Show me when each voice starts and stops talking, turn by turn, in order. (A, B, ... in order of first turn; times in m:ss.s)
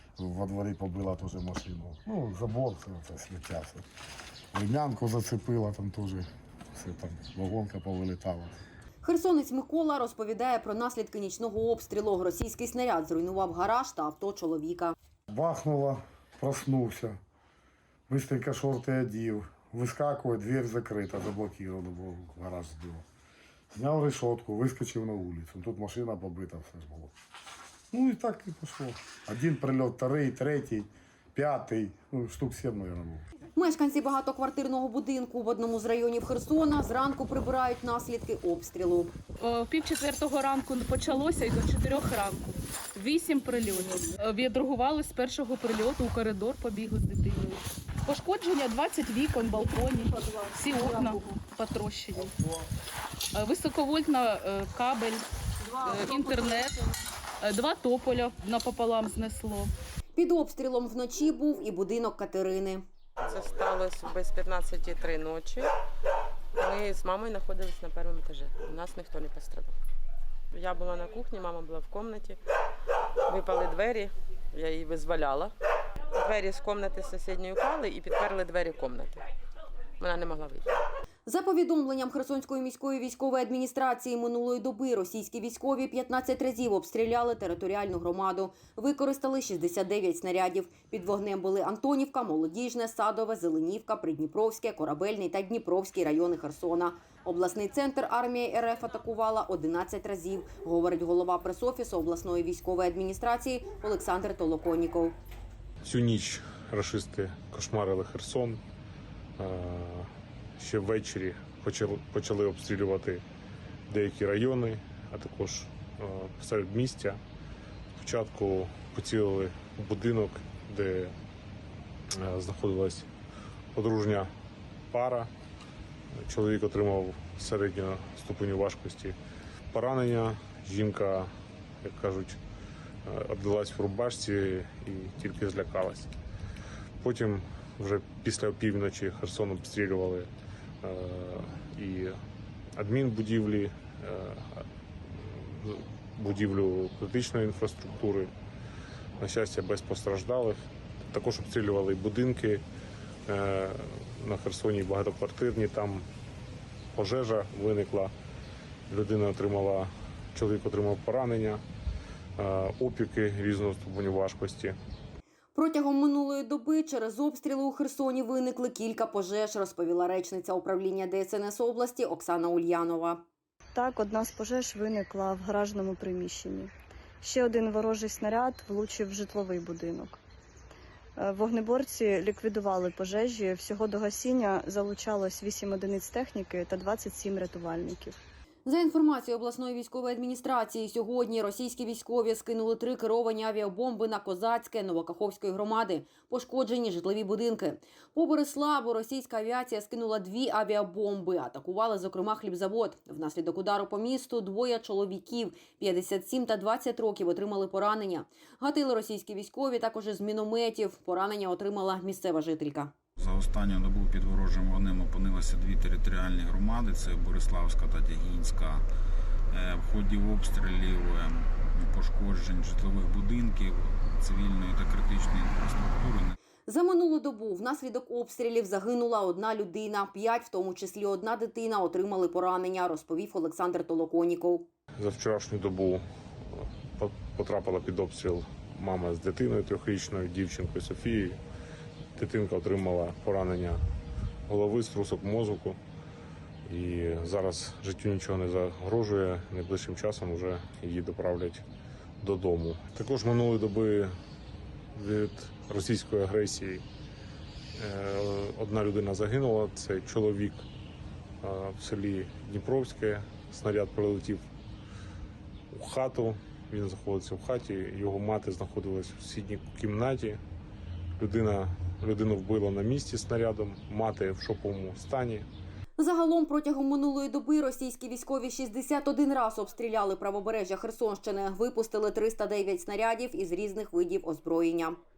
0:00.2-0:03.8 A
0:04.5-0:08.6 A
0:09.0-0:15.0 B
0:15.3-0:17.2 A
0:18.1-0:23.0 A
0:23.7-0:27.1 A
0:27.9-0:33.2 A
0:33.6-0:39.1 B
0:39.4-0:52.4 C
0:53.3-0:55.3 C
0:55.8-0:56.9 C
0:57.4-0:59.7 C
1:00.2-1:02.8 B
1:03.2-1:05.7 D
1:06.6-1:09.8 D
1:10.5-1:12.4 D
1:13.3-1:15.5 D
1:16.1-1:19.2 D
1:20.0-1:20.7 D
1:21.3-1:45.2 B
1:45.8-1:48.6 E
1:49.4-1:53.2 E
1:53.9-1:57.2 E
1:58.0-2:01.2 E
2:02.2-2:03.1 E
2:03.7-2:04.3 E
2:04.9-2:05.3 E
2:06.2-2:09.2 E
2:09.7-2:11.3 E
2:11.8-2:12.4 E
2:13.1-2:16.1 E
2:17.0-2:20.3 E
2:20.8-2:22.2 E
2:22.8-2:28.3 E
2:29.2-2:30.6 E
2:31.1-2:32.6 E
2:33.3-2:36.1 E
2:36.9-2:38.1 E
2:38.9-2:41.6 E
2:42.4-2:44.8 E
2:45.6-2:53.2 B
2:53.8-3:00.2 F
3:01.2-3:08.2 F
3:08.6-3:32.9 B
3:33.2-3:38.9 G
3:39.5-3:46.4 G
3:46.7-3:54.7 B
3:55.0-4:01.4 E
4:02.2-4:03.8 E
4:04.5-4:05.8 E
4:06.7-4:11.6 E
4:12.2-4:14.1 E
4:14.9-4:16.8 E
4:17.8-4:20.6 E
4:21.4-4:24.4 E
4:25.7-4:30.4 E
4:31.2-4:35.5 E
4:36.0-4:45.0 B